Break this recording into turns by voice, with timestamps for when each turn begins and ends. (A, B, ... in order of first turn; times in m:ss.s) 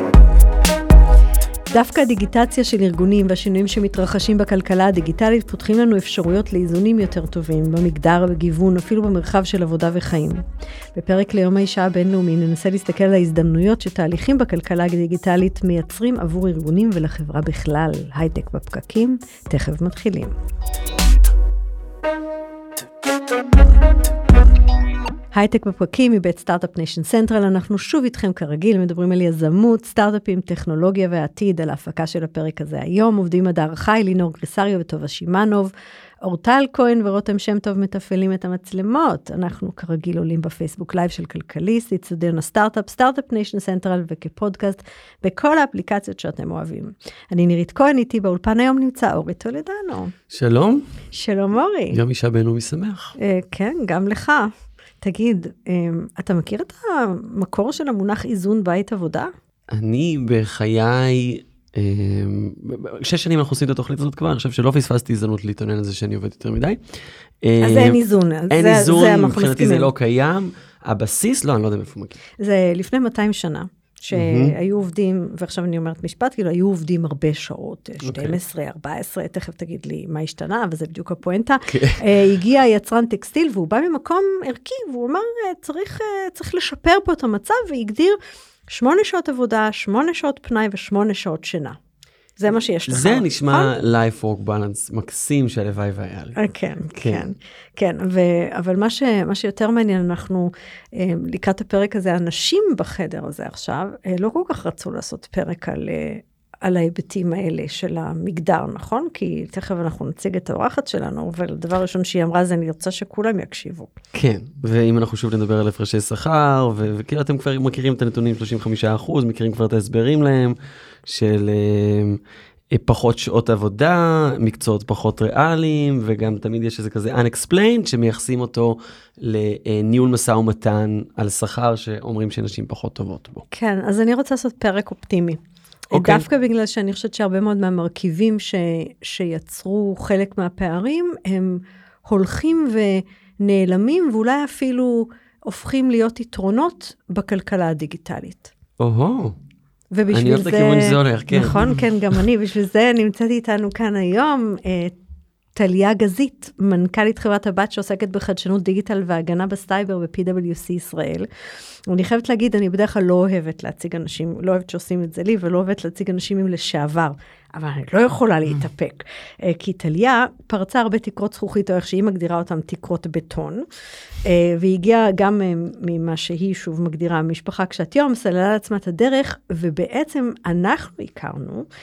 0:01.7-0:10.4 A
0:11.0-0:20.3 A
0:25.3-0:50.1 A
0:50.3-0:50.9 B
0:51.1-0:52.0 A
0:51.9-0:53.1 B
0:53.2-0:54.5 A
0:55.0-0:59.3 A
0:59.7-1:12.2 B
1:07.6-1:09.9 A
1:12.4-1:28.2 A
1:14.1-1:14.5 B
1:18.0-1:18.4 B
1:21.7-1:22.2 B
1:28.7-1:31.8 A
1:32.4-1:33.7 A
1:32.9-1:36.4 B
1:36.4-1:53.9 A
1:36.9-1:37.2 B
1:54.2-2:02.2 B
2:02.7-2:13.4 B
2:13.5-2:15.4 A
2:15.9-2:28.5 A
2:15.9-2:16.3 B
2:28.8-2:29.4 B
2:29.9-2:34.9 A
2:30.1-2:31.7 B
2:35.6-2:41.3 A
2:41.9-2:53.7 A
2:54.2-3:01.7 A